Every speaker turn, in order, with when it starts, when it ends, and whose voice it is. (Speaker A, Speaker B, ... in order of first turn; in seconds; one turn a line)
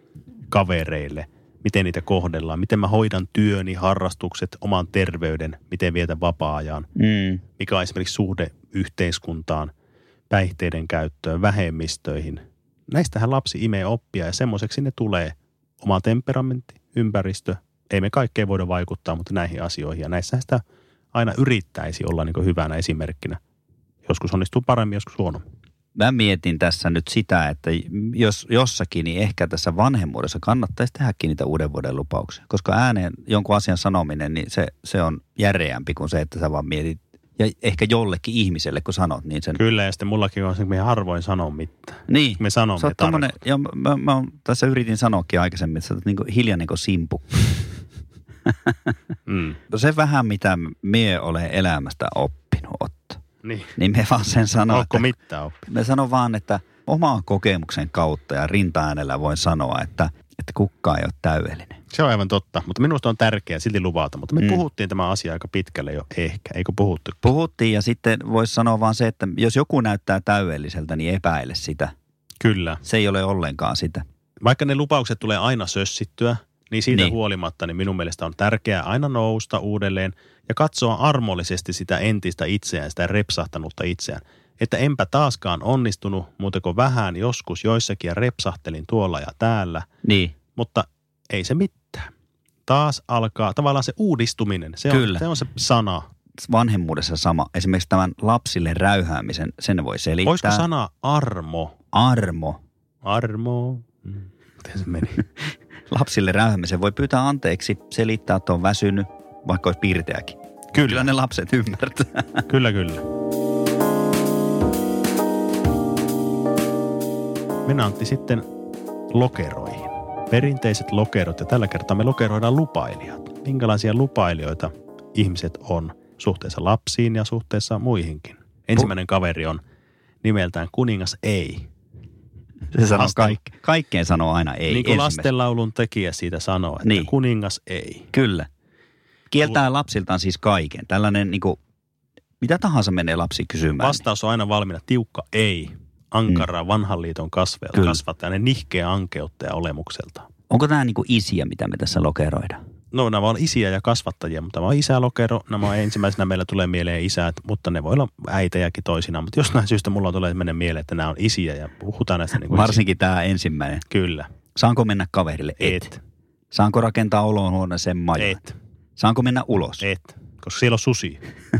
Speaker A: 0.5-6.9
Speaker B: 7.0-7.4
Speaker A: 7.6-9.7
Speaker A: 10.3-20.6
Speaker A: 21.1-23.4
Speaker A: 24.0-25.4
Speaker B: 25.9-39.6
Speaker A: 39.5-43.3
Speaker B: 42.1-47.6
Speaker B: 48.5-48.9
Speaker A: 49.3-49.6
Speaker B: 49.7-53.2
Speaker A: 53.4-53.7
Speaker B: 53.8-55.1
Speaker A: 54.7-55.7
Speaker B: 55.7-61.8
Speaker A: 61.9-67.2
Speaker B: 67.2-71.9
Speaker A: 72.4-72.8
Speaker B: 72.8-74.0
Speaker A: 74.4-89.8
Speaker B: 90.0-90.3
Speaker A: 90.5-92.1
Speaker A: 92.7-96.0
Speaker B: 94.9-95.2
Speaker B: 96.4-100.6
Speaker A: 100.2-101.7
Speaker B: 101.9-102.6
Speaker A: 103.0-105.2
Speaker B: 105.9-112.4
Speaker A: 110.7-111.1
Speaker A: 112.5-113.1
Speaker A: 117.7-118.4
Speaker A: 119.1-129.6
Speaker A: 130.2-131.7
Speaker B: 132.7-135.3
Speaker A: 132.9-133.4
Speaker A: 134.7-138.1
Speaker B: 136.8-137.1
Speaker B: 138.1-138.5
Speaker B: 139.3-141.6
Speaker B: 142.4-144.0
Speaker A: 143.8-150.3
Speaker B: 147.7-148.0
Speaker B: 150.5-152.6
Speaker A: 152.9-162.8
Speaker B: 162.4-163.8
Speaker A: 163.9-164.3
Speaker B: 164.5-165.9
Speaker A: 165.6-166.0
Speaker B: 166.5-168.4
Speaker A: 168.2-168.5
Speaker B: 169.0-169.8
Speaker A: 169.8-171.2